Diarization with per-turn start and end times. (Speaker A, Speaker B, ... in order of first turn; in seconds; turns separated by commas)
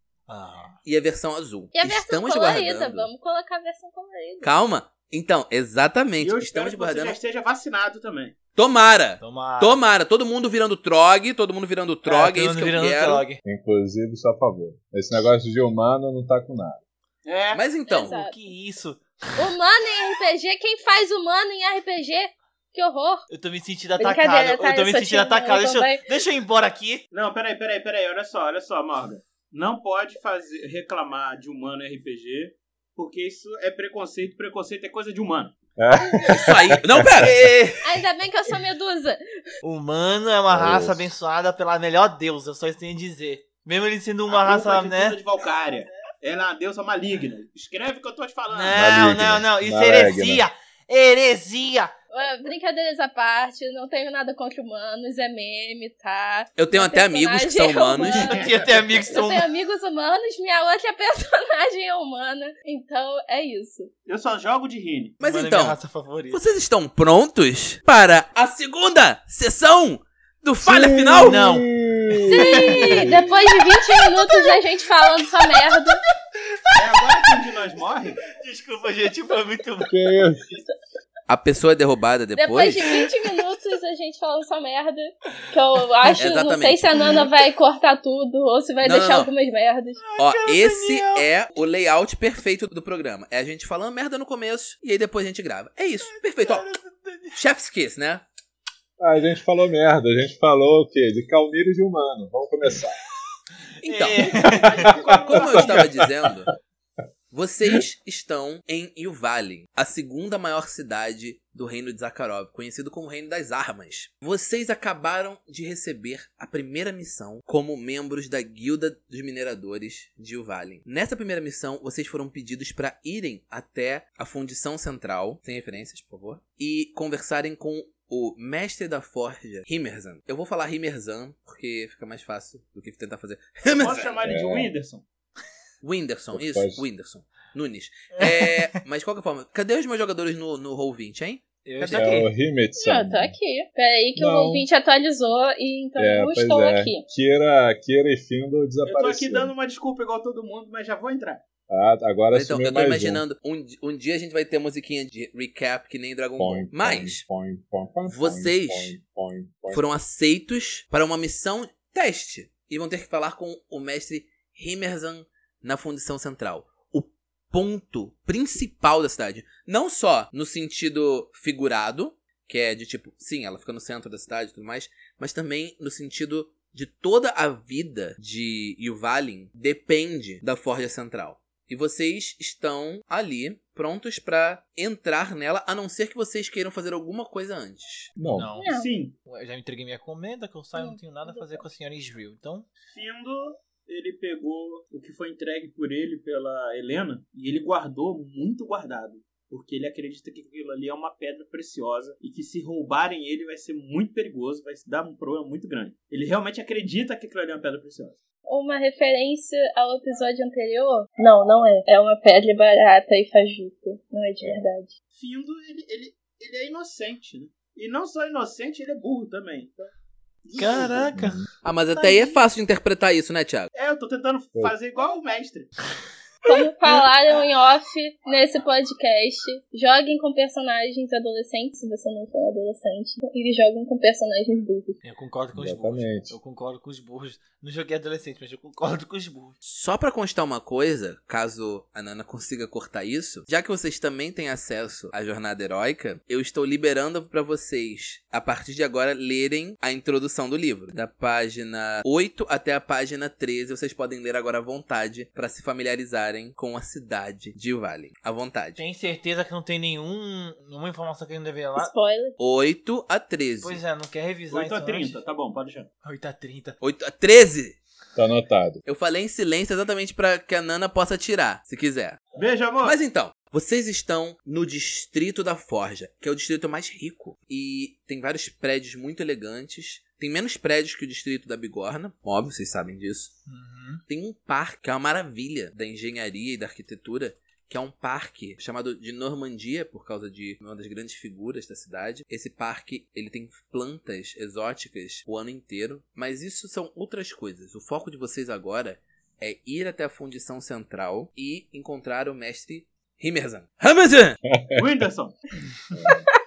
Speaker A: 0.3-0.8, Speaker B: 0.8-3.1, Speaker C: 1.7-4.5, Speaker B: 4.4-7.2, Speaker D: 6.2-8.4, Speaker B: 8.5-13.2, Speaker A: 9.2-9.8, Speaker A: 12.1-13.4, Speaker E: 13.4-16.8, Speaker D: 17.2-17.6, Speaker B: 17.5-18.2, Speaker C: 17.9-18.3, Speaker A: 18.1-19.5, Speaker C: 19.4-23.2, Speaker A: 23.3-27.0, Speaker C: 24.0-26.0, Speaker D: 27.1-35.6, Speaker E: 35.8-37.3, Speaker B: 36.2-37.4, Speaker A: 37.2-37.9, Speaker C: 37.8-39.4, Speaker A: 39.6-45.2, Speaker E: 40.5-41.1, Speaker D: 44.3-48.8, Speaker A: 48.5-51.9, Speaker E: 48.7-50.4, Speaker C: 52.1-63.9, Speaker B: 56.6-58.4, Speaker D: 58.0-59.0, Speaker A: 58.3-59.5, Speaker D: 64.1-65.2, Speaker B: 65.2-71.4, Speaker A: 65.2-66.4, Speaker E: 70.6-73.2, Speaker A: 71.2-73.2, Speaker C: 72.3-76.0, Speaker A: 76.7-77.4, Speaker D: 76.8-78.2, Speaker A: 78.3-79.9, Speaker E: 79.8-80.4, Speaker B: 81.3-83.0, Speaker C: 82.3-90.0, Speaker B: 86.2-87.2, Speaker B: 88.8-89.3, Speaker A: 90.0-91.2, Speaker B: 90.2-96.7, Speaker A: 96.0-97.4, Speaker B: 97.3-98.2, Speaker E: 99.0-103.0, Speaker B: 103.8-104.5, Speaker A: 103.8-105.0, Speaker D: 104.4-106.0, Speaker E: 105.0-106.3, Speaker B: 105.2-106.5, Speaker B: 107.3-134.2, Speaker D: 133.7-135.0, Speaker E: 134.2-134.7, Speaker B: 135.8-142.2, Speaker E: 136.3-136.8, Speaker A: 138.2-138.7, Speaker A: 141.6-142.3, Speaker E: 141.9-143.3, Speaker C: 142.8-147.0, Speaker E: 144.2-144.7, Speaker E: 146.0-149.5, Speaker D: 148.8-151.4, Speaker E: 151.7-153.2, Speaker B: 152.3-157.2, Speaker E: 156.4-159.8, Speaker B: 158.1-158.9, Speaker B: 159.7-188.1, Speaker E: 188.2-188.5, Speaker A: 188.3-188.7, Speaker C: 188.6-188.9, Speaker D: 188.7-189.2, Speaker A: 189.2-192.7, Speaker C: 190.8-191.6, Speaker D: 192.8-208.2, Speaker C: 208.5-214.9, Speaker D: 215.1-219.9, Speaker D: 220.4-221.1, Speaker A: 220.6-221.4, Speaker E: 221.1-221.4, Speaker B: 221.6-223.7, Speaker C: 221.9-222.4, Speaker D: 223.7-225.7, Speaker C: 226.4-235.0, Speaker A: 235.0-239.6, Speaker E: 235.5-236.3, Speaker B: 239.6-258.8, Speaker A: 258.8-261.9, Speaker C: 261.8-262.4, Speaker B: 262.4-263.8, Speaker A: 263.6-265.2, Speaker D: 264.5-265.9, Speaker A: 266.0-266.8, Speaker B: 266.8-267.8, Speaker E: 268.1-268.8, Speaker B: 268.8-272.2, Speaker D: 272.3-273.0, Speaker B: 272.8-283.3, Speaker A: 283.5-284.0, Speaker B: 284.1-304.4, Speaker E: 304.5-304.9, Speaker D: 304.7-305.3, Speaker E: 305.9-306.2